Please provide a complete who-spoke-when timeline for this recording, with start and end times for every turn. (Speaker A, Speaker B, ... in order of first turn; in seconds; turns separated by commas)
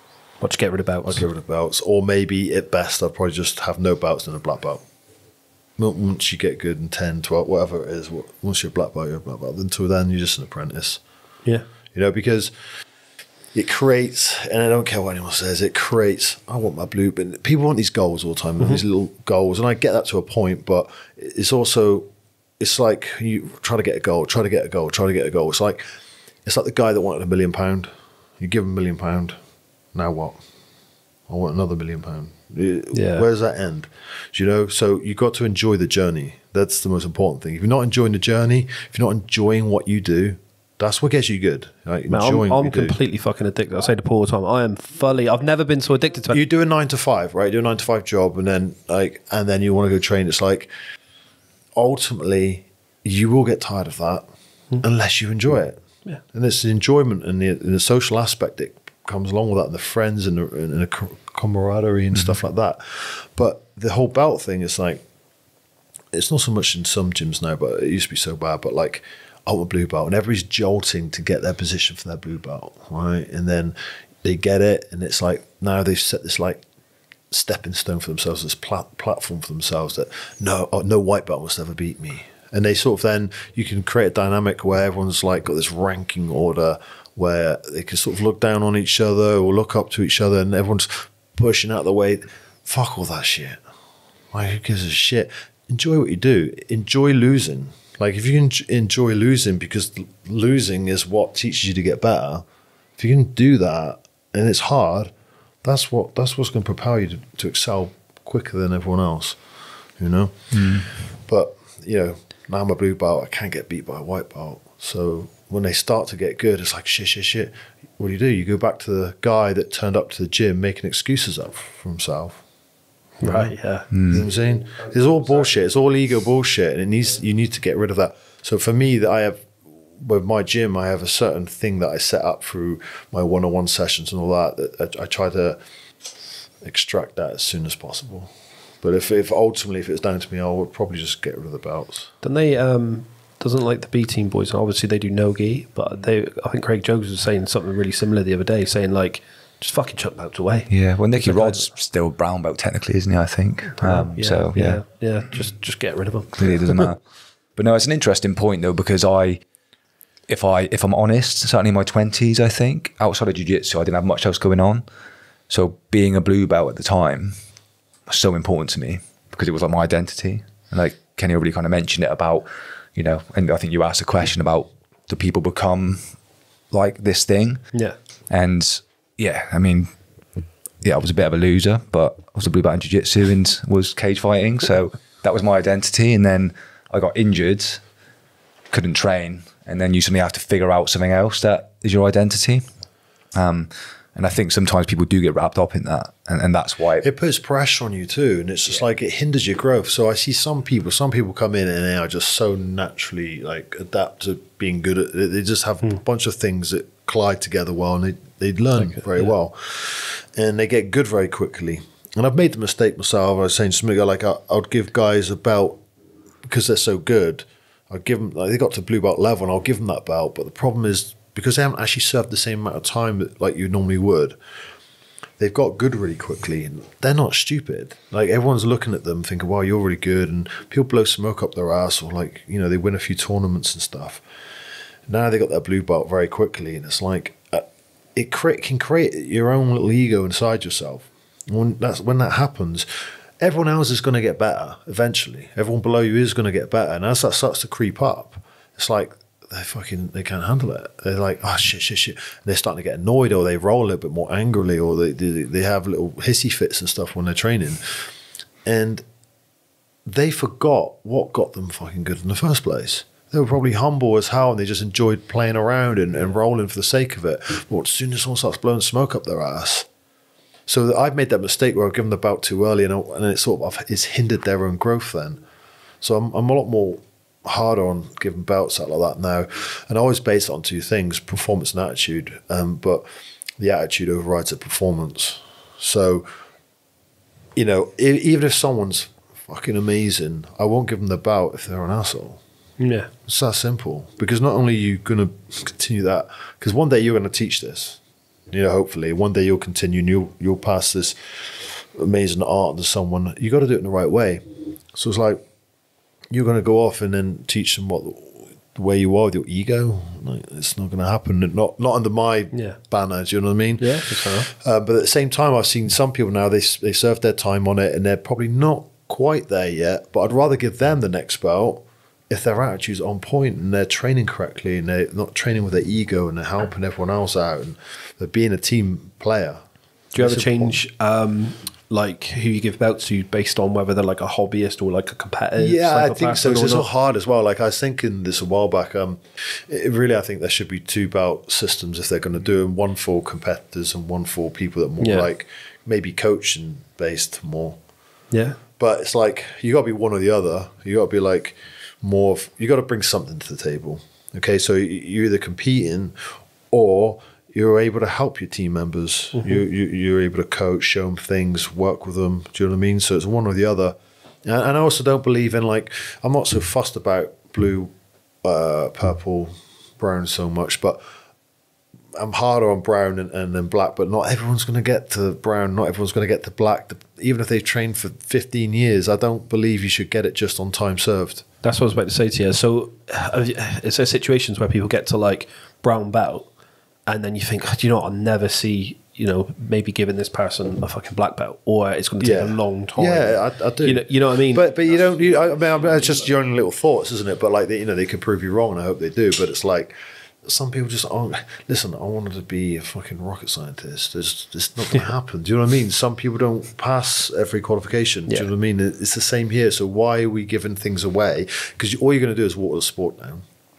Speaker A: 0.4-1.2, Speaker B: 1.0-4.8, Speaker B: 5.8-11.0, Speaker B: 11.9-12.5, Speaker B: 13.5-22.1, Speaker B: 22.6-25.8, Speaker B: 26.5-27.9, Speaker B: 28.4-29.4, Speaker B: 29.9-30.4, Speaker B: 31.3-43.0, Speaker A: 32.9-33.2, Speaker A: 42.1-46.4, Speaker B: 46.3-50.7, Speaker B: 51.8-54.2, Speaker B: 54.8-55.8, Speaker B: 56.3-65.0, Speaker B: 66.1-76.6, Speaker B: 77.3-93.6, Speaker B: 94.3-102.5, Speaker B: 103.0-105.1, Speaker B: 105.6-109.4, Speaker B: 110.0-122.4, Speaker C: 110.5-110.9, Speaker A: 123.2-124.1, Speaker B: 123.2-129.5, Speaker C: 123.9-124.2, Speaker B: 130.0-135.6, Speaker B: 136.6-138.3, Speaker B: 138.8-142.1, Speaker A: 142.2-151.7, Speaker C: 150.7-154.8, Speaker A: 153.7-156.9, Speaker C: 156.3-157.0, Speaker C: 157.6-159.4, Speaker C: 160.3-164.8, Speaker C: 165.5-167.4, Speaker C: 168.1-176.1, Speaker C: 176.7-177.7, Speaker C: 178.3-179.9, Speaker C: 180.8-187.8, Speaker C: 188.7-192.6, Speaker C: 193.3-197.1, Speaker B: 197.0-215.8, Speaker A: 208.8-209.3, Speaker B: 216.4-224.4, Speaker B: 225.4-234.2, Speaker B: 235.1-242.9, Speaker B: 243.4-258.1, Speaker B: 258.6-259.1, Speaker B: 260.1-269.9, Speaker B: 270.7-275.4, Speaker B: 276.0-283.1, Speaker B: 283.6-286.3, Speaker B: 287.6-292.4, Speaker A: 292.8-293.1, Speaker B: 293.3-305.4, Speaker B: 306.3-329.6, Speaker A: 312.5-312.8, Speaker A: 313.8-314.5, Speaker A: 330.1-336.9, Speaker B: 330.2-330.8, Speaker B: 335.6-347.8, Speaker A: 345.0-345.3, Speaker A: 348.3-348.6, Speaker B: 348.8-367.9, Speaker B: 368.4-371.0, Speaker B: 372.2-381.4, Speaker A: 381.6-386.5, Speaker A: 387.1-394.7, Speaker B: 392.2-413.4